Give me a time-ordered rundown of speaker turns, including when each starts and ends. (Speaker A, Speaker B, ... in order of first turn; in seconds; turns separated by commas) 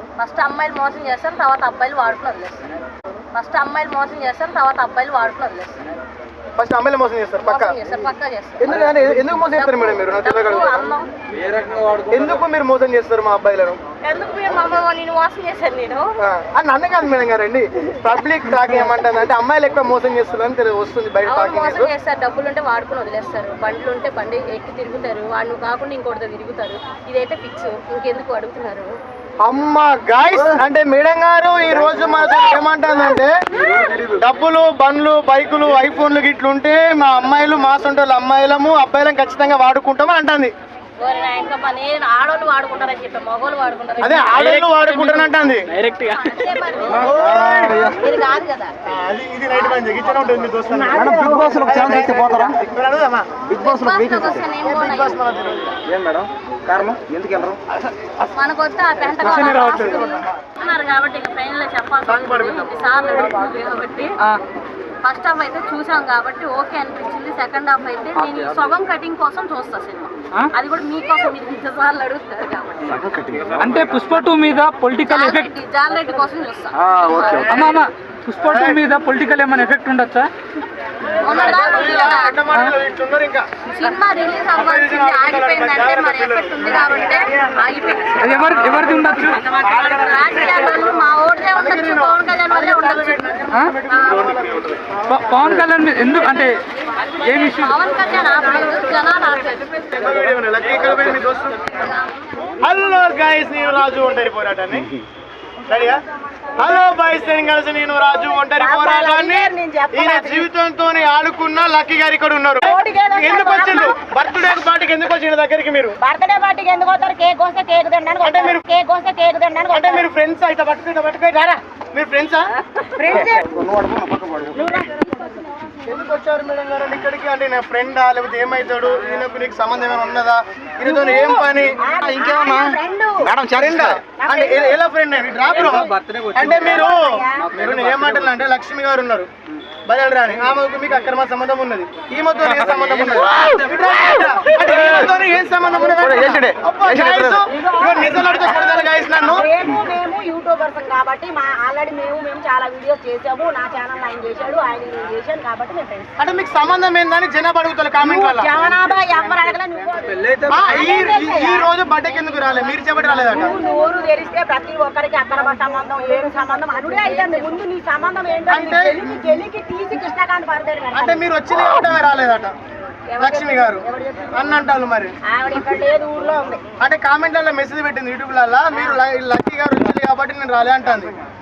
Speaker A: 0.2-2.6, Speaker A: 3.3-5.9, Speaker B: 6.6-7.8, Speaker A: 7.5-8.7, Speaker B: 8.6-10.8, Speaker A: 10.2-11.1, Speaker C: 11.5-12.1, Speaker B: 12.1-13.8, Speaker A: 14.0-16.2, Speaker B: 16.2-21.9, Speaker A: 21.3-29.0, Speaker B: 29.4-33.3, Speaker C: 33.7-34.2, Speaker B: 34.1-40.5, Speaker A: 41.0-44.2, Speaker B: 44.0-45.7, Speaker D: 45.7-46.5, Speaker E: 46.2-48.7, Speaker B: 47.0-47.9, Speaker C: 47.0-48.1, Speaker B: 48.9-53.4, Speaker E: 50.8-51.6, Speaker C: 50.8-52.6, Speaker C: 53.5-54.6, Speaker A: 53.6-55.0, Speaker B: 54.6-55.8, Speaker C: 55.9-57.6, Speaker A: 58.3-64.2, Speaker D: 59.2-60.3, Speaker B: 62.0-63.4, Speaker A: 65.0-72.9, Speaker C: 72.9-73.7, Speaker D: 73.6-75.5, Speaker A: 75.1-77.4, Speaker C: 76.8-77.6, Speaker E: 77.1-77.7, Speaker D: 77.3-80.3, Speaker B: 77.5-77.8, Speaker B: 78.4-78.8, Speaker B: 81.2-83.5, Speaker A: 81.3-82.3, Speaker A: 83.7-88.2, Speaker B: 84.5-87.5, Speaker D: 88.2-89.6, Speaker A: 89.8-93.1, Speaker B: 91.5-95.6, Speaker D: 95.1-96.6, Speaker D: 97.2-98.3, Speaker A: 97.6-99.6, Speaker B: 99.6-101.8, Speaker B: 102.6-104.9, Speaker B: 105.7-106.0, Speaker B: 106.6-116.0, Speaker E: 108.6-110.4, Speaker E: 112.6-114.0, Speaker E: 116.0-120.1, Speaker B: 118.2-118.6, Speaker B: 119.7-122.5, Speaker E: 123.0-123.5, Speaker C: 123.1-124.7, Speaker E: 124.5-125.0, Speaker B: 125.9-131.8, Speaker E: 130.9-133.3, Speaker C: 131.9-134.0, Speaker B: 133.5-139.3, Speaker E: 134.2-134.8, Speaker E: 135.6-137.5, Speaker B: 139.9-149.5, Speaker C: 144.7-145.1, Speaker C: 145.8-147.4, Speaker E: 147.5-156.1, Speaker B: 156.2-158.5, Speaker E: 158.0-161.7, Speaker B: 160.4-163.6, Speaker E: 163.2-171.2, Speaker B: 168.5-169.3, Speaker B: 170.9-172.6, Speaker E: 173.1-174.5, Speaker B: 173.2-175.2, Speaker E: 175.3-176.6, Speaker B: 176.8-181.2